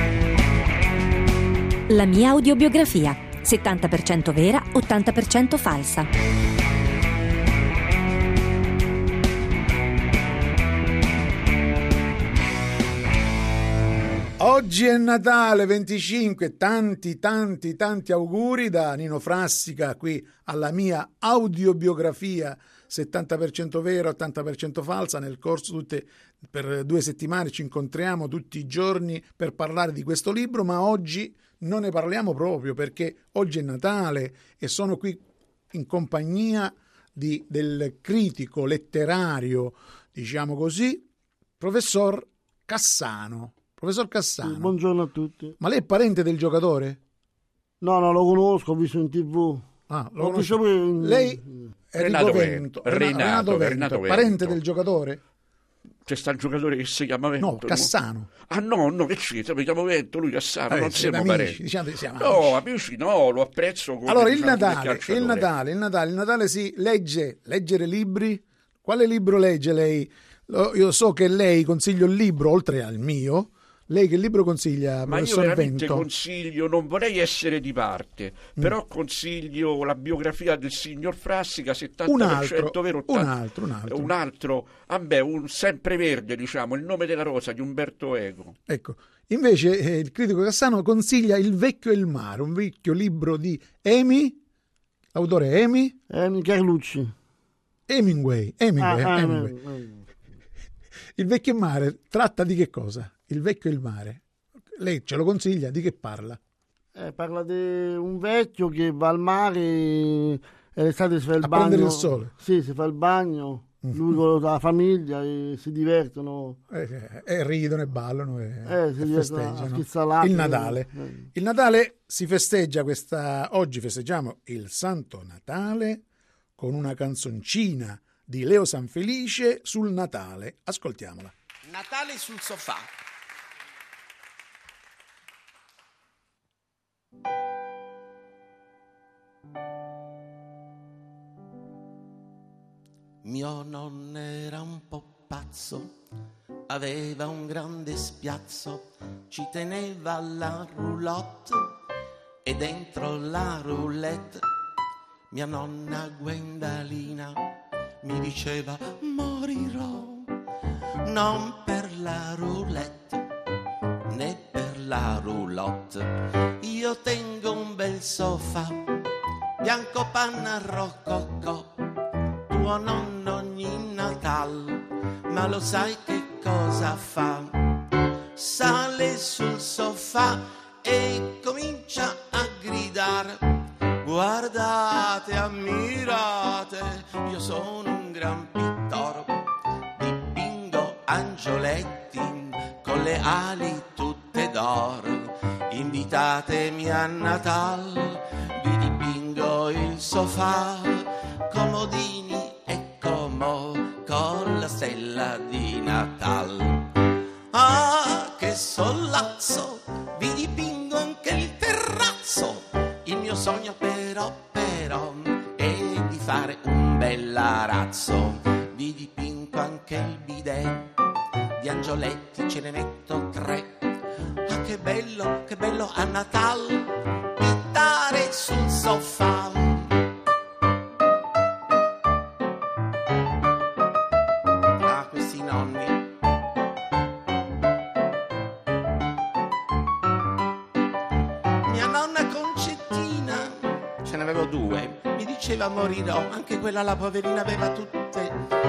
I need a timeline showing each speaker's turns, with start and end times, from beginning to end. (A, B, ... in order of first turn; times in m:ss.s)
0:01.9-0:06.1 A
0:14.4-0:41.1 B
0:41.6-0:44.7 B
0:44.5-0:45.6 C
0:45.6-0:47.0 B
0:47.8-0:49.6 C
0:49.9-0:51.4 B
0:50.2-0:51.4 C
0:51.9-0:55.2 B
0:52.0-0:54.6 D
0:56.1-0:57.9 D
0:57.4-0:58.3 B
0:58.5-1:01.6 D
1:00.7-1:02.6 B
1:02.2-1:05.5 D
1:04.1-1:16.1 B
1:15.1-1:28.6 D
1:22.1-1:24.1 B
1:28.7-1:34.4 B
1:35.1-1:36.0 B
1:36.1-1:37.1 C
1:37.9-1:39.6 B
1:38.8-1:40.0 C
1:41.2-1:44.2 B
1:44.8-1:46.4 B
1:47.0-1:56.6 C
1:51.4-1:52.3 B
1:53.8-1:54.1 B
1:56.7-2:06.0 B
1:58.7-2:01.2 C
2:06.6-2:11.3 B
2:11.7-2:12.9 E
2:23.2-2:25.9 E
2:26.7-2:31.8 E
2:32.4-2:34.4 E
2:35.3-2:37.5 E
2:38.0-2:40.3 E
2:41.0-2:43.3 E
2:44.1-2:48.8 E
2:49.6-2:51.7 E
2:52.5-3:03.4 E
3:04.0-3:09.4 E
3:10.0-3:41.0 E
3:41.6-3:43.9 E
3:44.5-3:50.0 E
3:54.8-3:56.1 E
4:01.6-4:08.3 E